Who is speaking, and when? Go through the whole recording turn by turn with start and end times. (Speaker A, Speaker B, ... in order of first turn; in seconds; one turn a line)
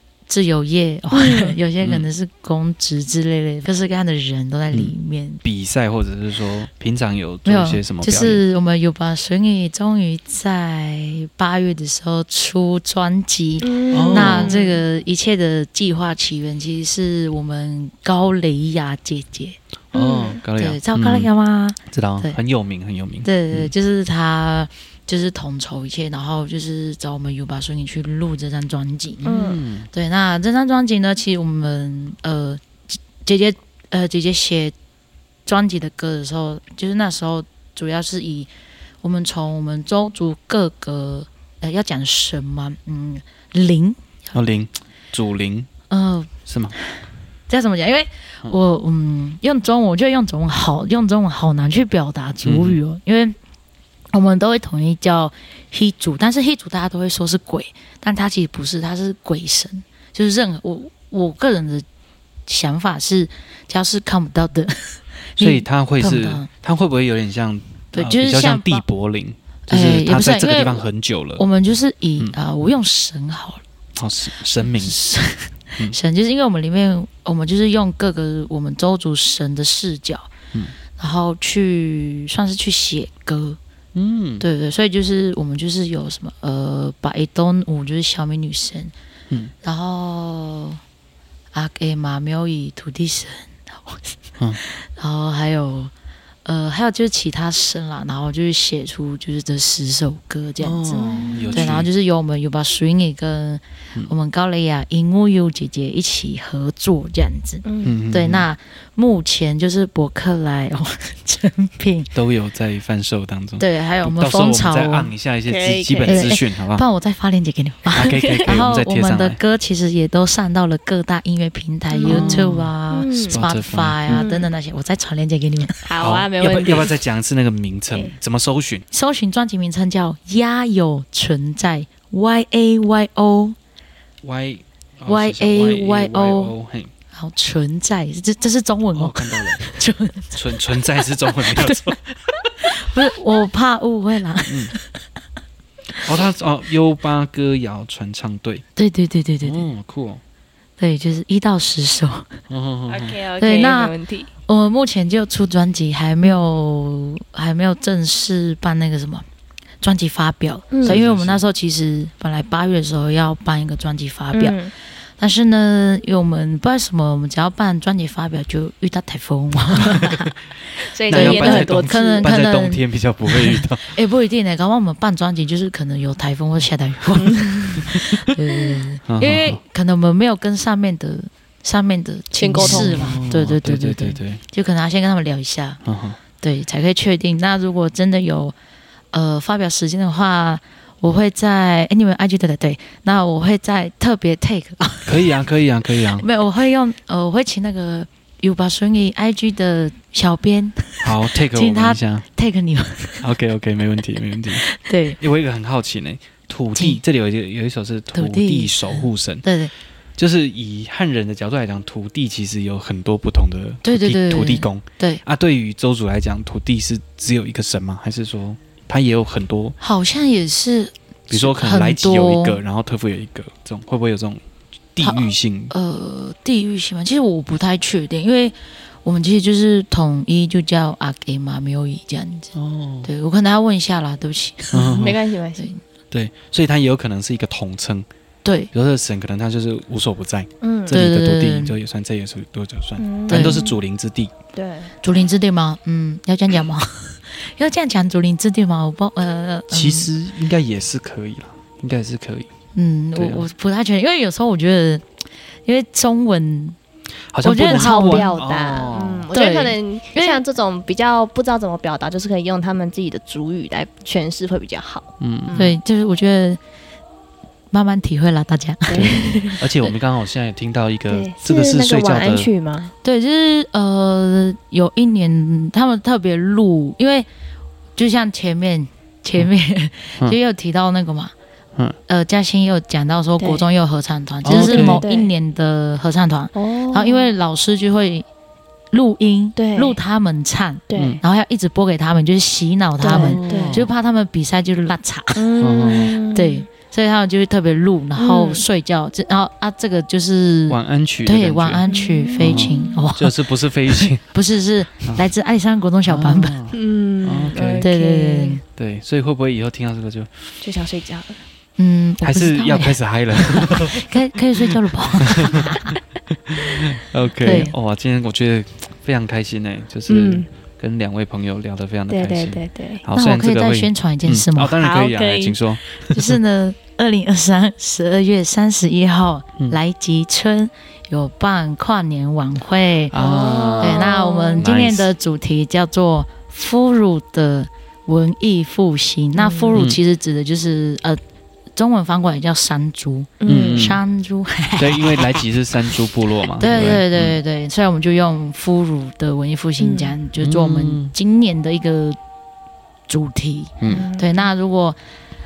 Speaker A: 0.3-5.4
Speaker B: 1.1-1.6
Speaker C: 4.7-8.4
Speaker A: 7.4-19.6
Speaker B: 13.6-14.8
Speaker C: 13.9-14.6
Speaker C: 19.9-21.3
Speaker B: 19.9-20.4
Speaker A: 20.6-22.4
Speaker C: 21.9-23.7
Speaker A: 23.2-29.4
Speaker B: 29.2-29.6
Speaker C: 29.2-29.9
Speaker A: 29.9-34.7
Speaker A: 35.5-38.5
Speaker A: 39.0-44.0
Speaker C: 44.3-45.7
Speaker A: 45.9-46.8
Speaker C: 46.5-46.7
Speaker A: 47.5-53.4
Speaker C: 52.4-52.8
Speaker A: 54.1-61.9
Speaker A: 62.5-66.5
Speaker C: 65.4-71.4
Speaker A: 67.9-68.8
Speaker A: 69.7-70.8
Speaker A: 71.3-73.6
Speaker C: 74.0-75.0
Speaker A: 74.8-80.3
Speaker A: 81.0-83.6
Speaker C: 83.9-84.4
Speaker A: 84.4-88.9
Speaker A: 89.6-90.8
Speaker A: 91.5-95.9
Speaker A: 96.4-112.1
Speaker C: 100.6-101.9
Speaker B: 100.9-101.7
Speaker B: 107.6-107.9
Speaker C: 107.8-108.5
Speaker C: 112.1-116.8
Speaker A: 113.6-115.1
Speaker B: 115.5-116.3
Speaker A: 116.0-125.8
Speaker C: 117.9-119.4
Speaker B: 121.9-123.4
Speaker C: 122.0-122.7
Speaker C: 123.3-124.2
Speaker B: 124.1-124.5
Speaker B: 125.8-127.0
Speaker C: 126.0-128.8
Speaker A: 128.9-133.6
Speaker C: 134.2-136.9
Speaker A: 135.1-136.5
Speaker A: 137.1-141.9
Speaker C: 138.9-139.7
Speaker C: 140.3-142.7
Speaker A: 142.6-144.8
Speaker C: 144.5-144.7
Speaker C: 146.0-148.6
Speaker A: 148.8-149.6
Speaker C: 149.4-150.2
Speaker A: 150.8-152.3
Speaker C: 152.5-153.2
Speaker B: 152.9-154.3
Speaker A: 153.4-153.9
Speaker A: 154.5-159.2
Speaker A: 159.8-164.6
Speaker B: 160.7-161.0
Speaker C: 160.8-161.4
Speaker B: 164.3-164.7
Speaker A: 165.2-170.3
Speaker C: 169.8-170.3
Speaker B: 170.9-172.3
Speaker A: 171.0-185.8
Speaker C: 171.1-173.9
Speaker B: 177.2-177.6
Speaker C: 177.9-178.2
Speaker C: 179.1-179.6
Speaker B: 182.3-183.1
Speaker C: 182.6-184.4
Speaker C: 185.8-186.2
Speaker A: 186.4-188.5
Speaker A: 189.1-195.3
Speaker C: 195.1-196.2
Speaker A: 196.1-203.3
Speaker C: 201.0-202.2
Speaker C: 203.2-204.6
Speaker A: 204.5-205.2
Speaker C: 205.2-209.4
Speaker A: 206.7-207.0
Speaker A: 208.1-209.7
Speaker C: 210.2-219.8
Speaker A: 213.8-215.2
Speaker A: 219.8-222.6
Speaker C: 221.3-224.4
Speaker C: 224.9-225.7
Speaker A: 225.0-232.5
Speaker C: 232.5-233.1
Speaker A: 233.0-235.0
Speaker C: 234.7-235.2
Speaker B: 234.8-235.7
Speaker C: 236.1-238.1
Speaker A: 238.4-238.7
Speaker C: 238.7-244.3
Speaker B: 240.6-241.0
Speaker A: 240.9-241.8
Speaker B: 243.0-243.8
Speaker A: 243.3-243.6
Speaker B: 244.5-244.9
Speaker A: 245.0-250.1
Speaker C: 249.7-252.5
Speaker A: 252.7-255.1
Speaker C: 253.2-253.4
Speaker A: 255.7-256.8
Speaker C: 257.3-259.3
Speaker A: 257.4-258.3
Speaker B: 257.6-265.8
Speaker A: 259.3-260.4
Speaker C: 265.2-265.6
Speaker A: 265.6-266.6
Speaker A: 267.7-269.6
Speaker B: 268.9-269.9
Speaker C: 268.9-272.5
Speaker B: 271.1-272.9
Speaker A: 273.0-277.3
Speaker A: 278.0-281.3
Speaker A: 282.1-288.2
Speaker B: 283.4-283.6
Speaker C: 284.4-285.0
Speaker B: 284.5-285.3
Speaker B: 286.5-287.3
Speaker A: 288.9-306.6
Speaker B: 289.6-290.0
Speaker B: 290.9-291.2
Speaker C: 290.9-291.2
Speaker B: 293.0-293.8
Speaker C: 293.1-293.9
Speaker B: 295.4-296.6
Speaker C: 295.6-296.1
Speaker B: 298.1-298.6
Speaker C: 300.7-301.8
Speaker B: 301.9-303.0
Speaker C: 302.4-304.2
Speaker C: 306.1-307.9
Speaker B: 306.7-308.6
Speaker A: 307.8-308.6
Speaker C: 308.8-310.3
Speaker B: 310.6-311.4
Speaker A: 311.8-315.9
Speaker C: 312.2-314.0
Speaker C: 315.2-315.9
Speaker C: 316.5-326.4
Speaker A: 317.4-317.7
Speaker B: 320.1-320.5
Speaker B: 322.1-323.0
Speaker A: 323.1-324.8
Speaker B: 324.8-325.6
Speaker A: 326.1-333.1
Speaker C: 333.1-334.0
Speaker B: 333.1-334.6
Speaker A: 333.8-341.2
Speaker C: 334.6-335.1
Speaker B: 339.4-339.8
Speaker A: 341.8-345.4
Speaker B: 343.4-343.9
Speaker C: 343.5-344.0
Speaker C: 344.8-347.4
Speaker A: 346.5-352.2
Speaker B: 349.8-350.1
Speaker C: 350.4-351.1
Speaker A: 353.1-355.0
Speaker C: 353.8-354.1
Speaker B: 353.9-354.4